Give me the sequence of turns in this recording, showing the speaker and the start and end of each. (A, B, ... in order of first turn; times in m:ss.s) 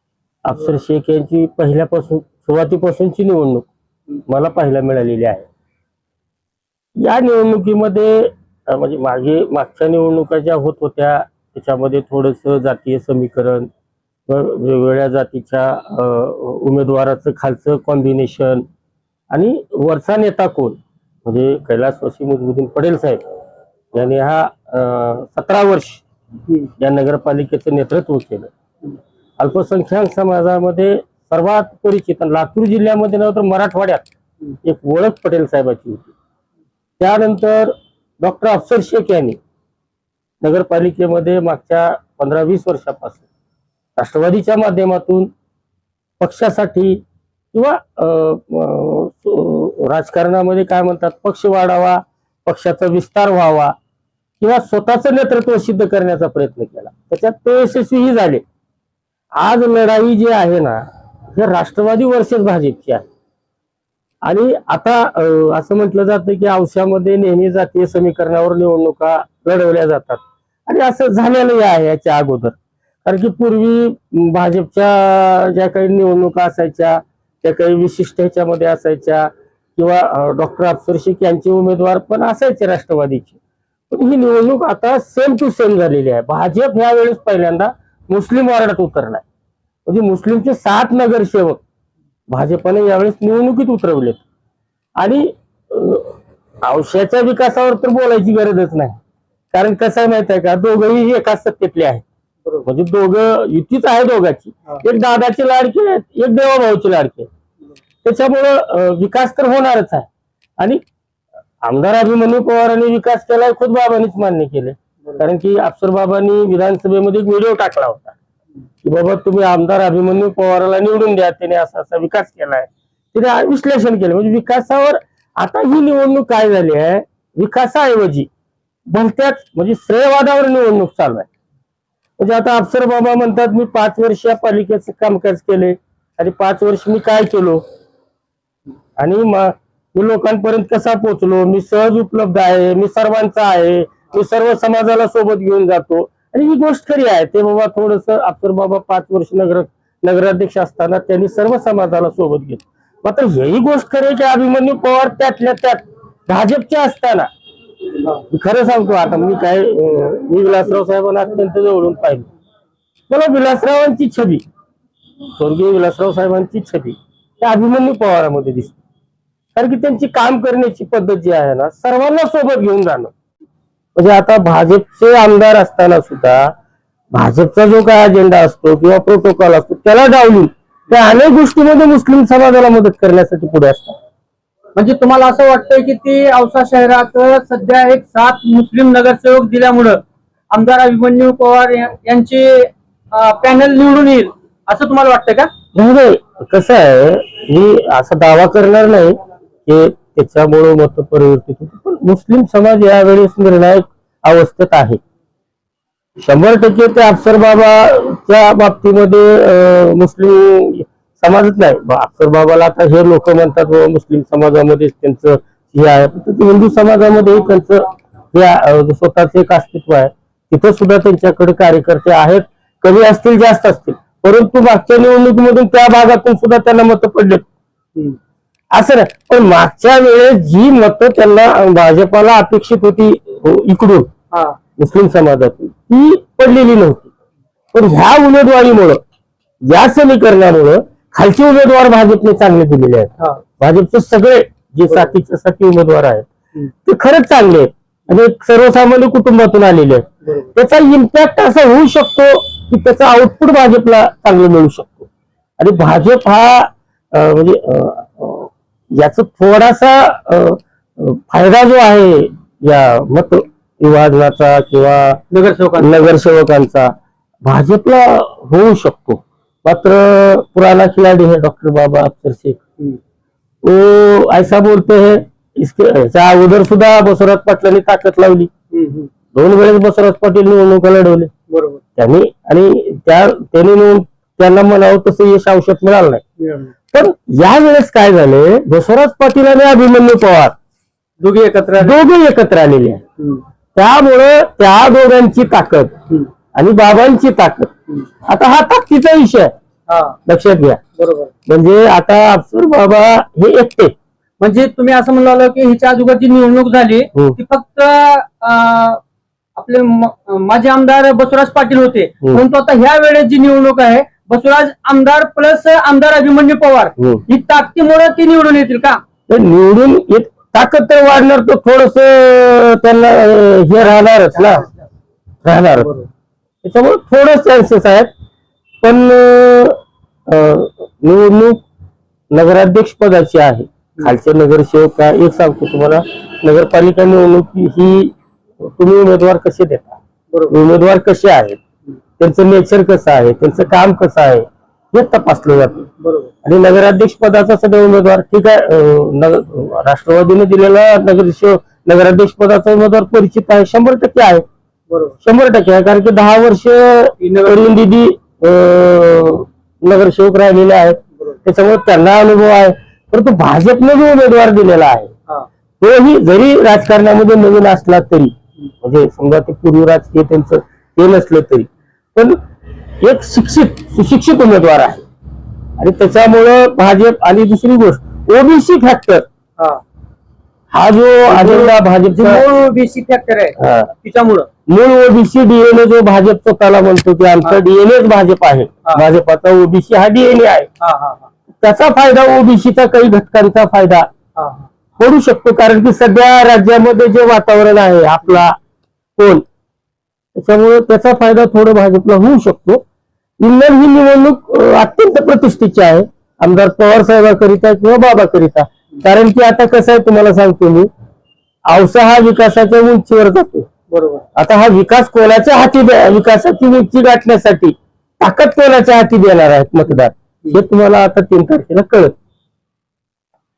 0:00.4-0:03.7 A
0:04.3-0:05.5 A
0:07.0-0:13.7 A
0:14.3-0:18.6 A
0:19.3-0:23.2 A
0:23.9-0:26.0 A
0:26.8-0:28.5 A
0:29.4-0:34.0 A
0:34.6-0:36.1 A
0:37.0-0:39.4 A
0:40.4-0:43.2 A
0:44.0-0:45.3 A
0:46.2-0:47.0 A
0:47.5-0:53.8 A
0:54.4-0:58.4 A
0:59.3-1:03.0 A
1:04.2-1:23.4 A
1:23.9-1:29.2 A
1:29.8-1:31.6 A
1:32.3-1:34.2 A
1:35.0-1:39.0 A
1:39.5-1:42.0 A
1:42.6-1:47.3 A
1:48.0-1:50.1 A
1:51.6-1:58.1 A
1:58.8-2:08.3 A
2:08.9-2:11.3 A
2:12.2-2:17.6 A
2:19.0-2:37.3 A
2:38.3-2:42.3 A
2:43.1-2:44.4 A
2:45.4-2:48.8 A
2:49.5-2:53.1 A
2:54.0-2:56.5 A
2:57.1-3:04.0 A
3:04.8-3:10.0 B
3:10.5-3:15.5 B
3:15.7-3:25.0 A
3:26.2-3:47.4 A
3:48.7-3:54.1 A
3:54.3-3:54.6 B
3:54.8-3:57.1 A
3:57.7-3:59.0 A
3:59.6-4:06.2 A
4:06.8-4:15.1 A
4:15.6-4:25.2 A
4:25.3-4:26.1 B
4:25.8-4:32.6 A
4:33.6-4:38.5 A
4:38.7-4:39.1 B
4:39.3-4:41.3 A
4:41.5-4:41.8 B
4:42.0-4:46.2 A
4:46.4-4:46.7 B
4:46.9-4:50.5 A
4:51.2-4:52.0 B
4:51.8-4:53.0 A
4:53.8-4:55.9 A
4:56.5-4:57.7 A
4:58.2-4:59.5 A
4:59.9-5:00.2 B
5:00.3-5:00.8 A
5:01.0-5:01.3 B
5:01.5-5:03.9 A
5:04.4-5:09.0 B
5:09.6-5:19.0 B
5:19.3-5:24.7 A
5:25.4-5:25.9 A
5:25.7-5:26.1 B
5:26.6-5:28.1 A
5:28.8-5:31.6 A
5:32.3-5:40.0 A
5:40.3-5:40.6 B
5:40.5-5:41.6 A
5:42.2-5:45.9 A
5:46.0-5:46.3 B
5:46.4-5:54.4 A
5:54.9-5:55.1 B
5:55.2-6:05.1 A
5:57.2-5:57.7 B
6:05.8-6:12.4 A
6:13.0-6:15.0 A
6:15.8-6:19.2 A
6:20.7-6:22.4 A
6:21.3-6:24.5 B
6:23.6-6:23.9 A
6:24.7-6:30.7 A
6:30.8-6:31.3 B
6:31.6-6:34.1 A
6:34.4-6:34.7 B
6:35.0-6:38.6 A
6:39.2-6:39.4 A
6:40.4-6:42.8 A
6:43.4-6:50.9 A
6:51.7-6:53.7 A
6:53.9-6:54.2 B
6:54.4-7:02.1 A